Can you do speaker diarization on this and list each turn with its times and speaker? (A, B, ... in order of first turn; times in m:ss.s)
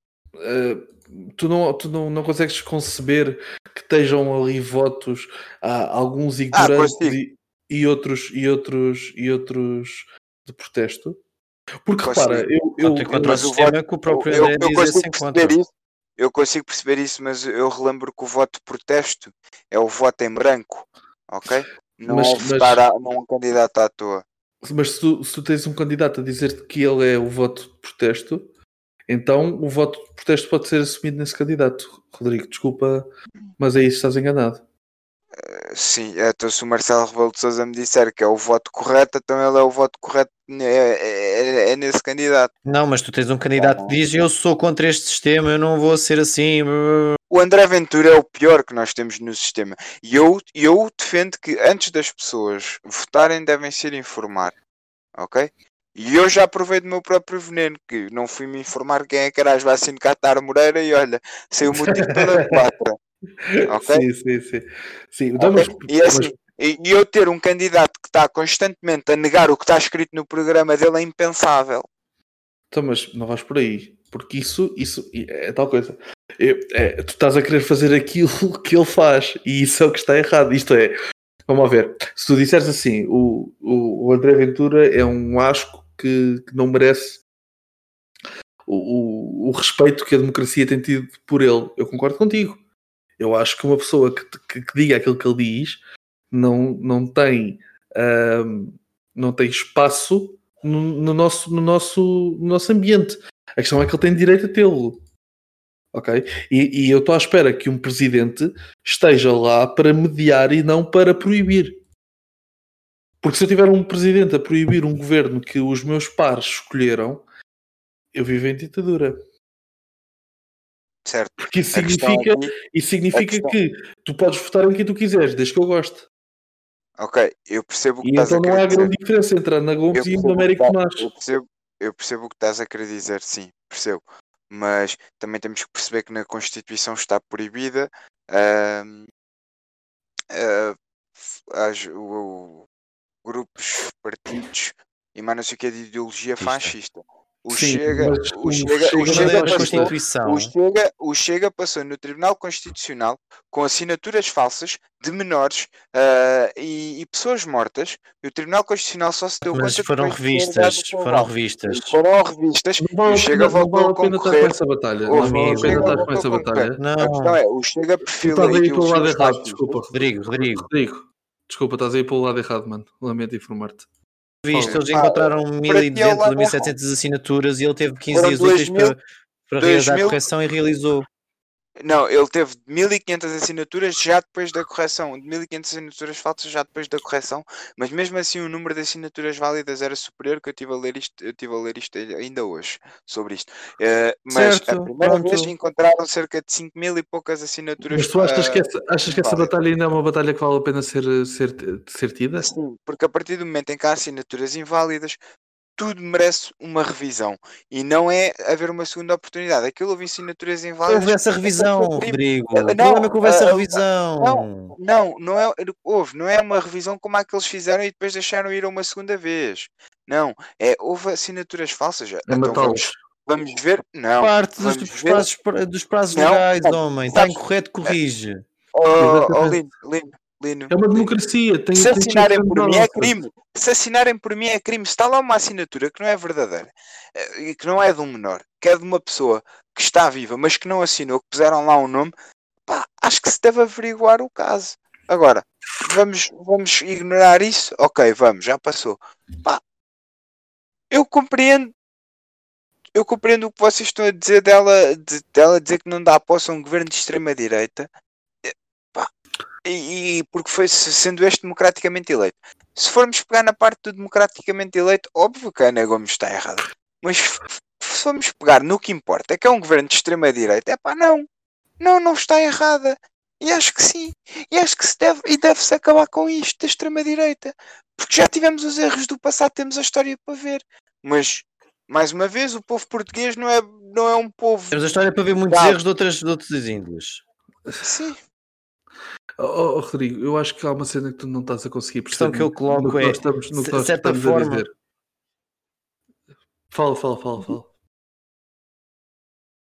0:00.4-0:11.2 A
0:06.5-0:07.2 B
0:11.8-0:13.5 A
0:12.0-0:12.5 B
0:12.8-0:15.6 C
0:13.2-0:15.7 B
0:16.2-0:24.2 B
0:22.1-0:22.8 A
0:24.6-0:28.5 A
0:29.1-0:33.1 A
0:33.6-0:34.6 A
0:35.4-0:42.5 B
0:42.6-0:47.2 C
0:43.6-0:44.0 B
0:47.3-0:54.5 B
0:55.2-1:03.0 B
1:01.7-1:02.6 A
1:03.5-1:06.3 A
1:03.7-1:04.1 B
1:05.4-1:11.9 B
1:12.7-1:21.0 A
1:21.5-1:27.2 A
1:28.7-1:32.6 A
1:33.2-1:35.8 A
1:36.3-1:45.0 A
1:45.9-1:51.8 A
1:53.2-1:57.2 A
1:58.1-1:59.2 A
2:01.0-2:02.5 B
2:01.4-2:06.1 A
2:03.1-2:03.5 B
2:07.0-2:08.9 B
2:08.0-2:11.1 A
2:09.9-2:19.1 B
2:20.3-2:20.8 B
2:21.4-2:22.7 B
2:23.2-2:44.6 B
2:26.4-2:26.7 C
2:27.5-2:29.9 A
2:29.0-2:30.5 C
2:39.5-2:42.0 C
2:42.8-2:46.8 A
2:45.1-2:49.8 B
2:45.2-2:46.1 C
2:46.8-2:47.4 C
2:48.2-2:53.9 A
2:49.9-2:50.7 C
2:54.4-3:01.1 C
2:54.5-2:54.8 A
2:54.9-2:56.7 B
2:58.1-2:59.0 B
2:59.6-3:00.2 B
3:01.8-3:19.5 B
3:14.3-3:15.5 C
3:17.9-3:22.5 A
3:22.4-3:25.2 B
3:25.8-3:45.3 B
3:30.9-3:34.7 C
3:42.3-3:42.9 A
3:44.2-3:48.4 C
3:46.1-3:48.0 B
3:48.7-3:51.1 B
3:49.0-3:49.6 A
3:50.7-3:53.1 A
3:51.8-4:02.1 B
4:02.7-4:09.6 B
4:10.9-4:11.7 B
4:13.0-4:17.9 B
4:18.4-4:19.1 B
4:19.6-4:31.3 B
4:31.8-4:44.8 B
4:44.7-4:47.2 C
4:45.5-4:45.8 B
4:47.8-4:48.2 B
4:49.4-4:54.7 A
4:52.1-4:54.6 C
4:56.7-4:57.7 A